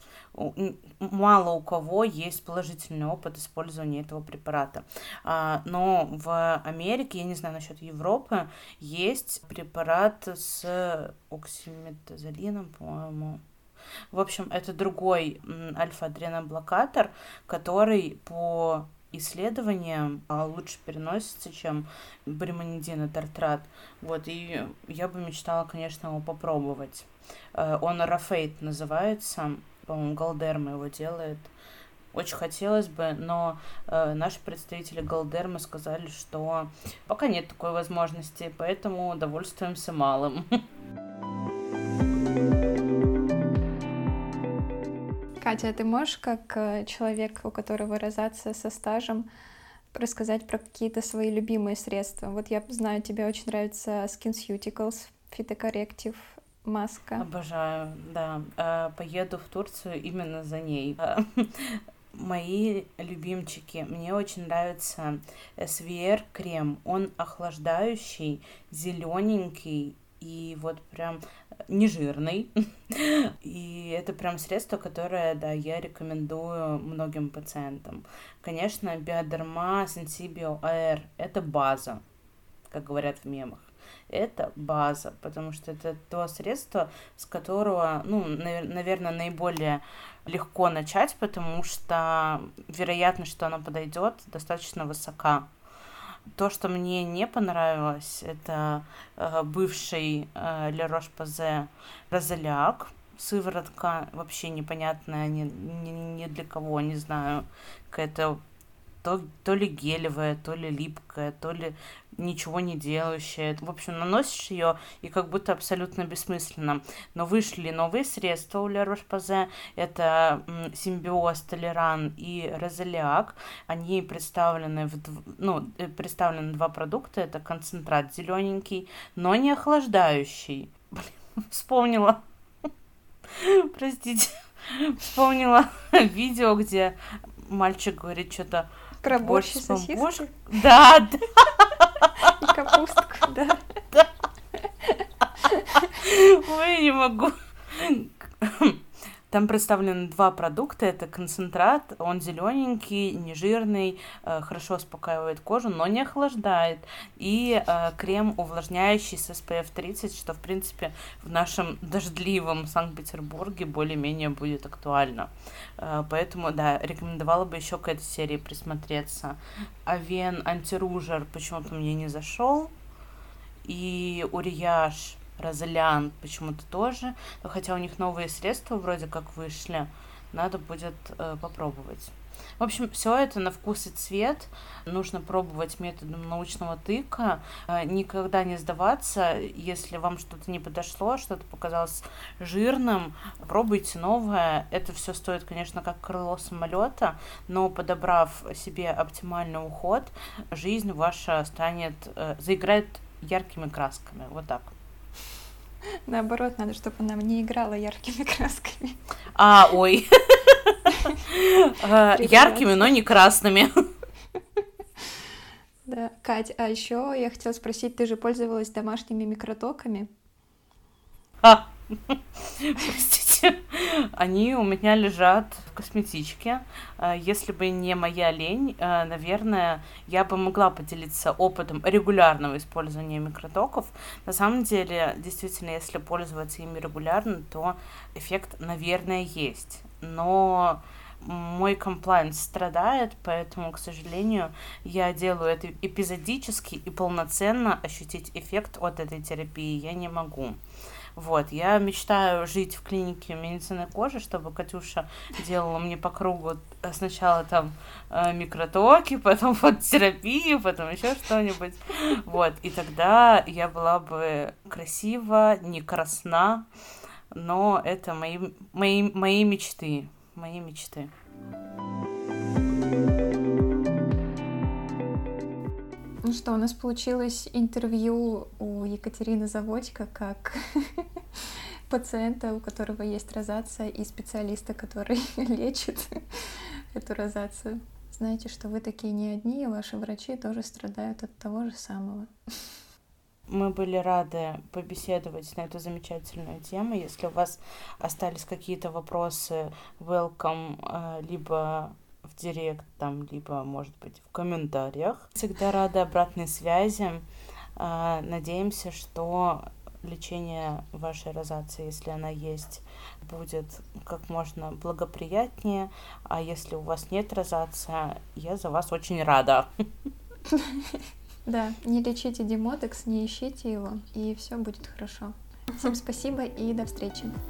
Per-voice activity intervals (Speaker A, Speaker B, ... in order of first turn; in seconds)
Speaker A: 0.3-13.4, 14.1-31.5, 32.1-40.6, 57.2-82.0, 82.7-95.5, 96.3-108.4, 109.0-132.7, 133.3-142.3, 145.8-172.7, 173.6-204.7, 209.3-213.8, 221.4-250.6, 251.2-266.7, 267.3-271.1, 293.5-307.2, 307.8-319.7
Speaker B: 45.4-49.3, 49.9-57.3, 139.0-140.3, 142.2-143.6, 206.1-209.0, 210.9-211.2, 212.1-212.9, 215.9-220.1, 276.2-292.3, 320.5-327.4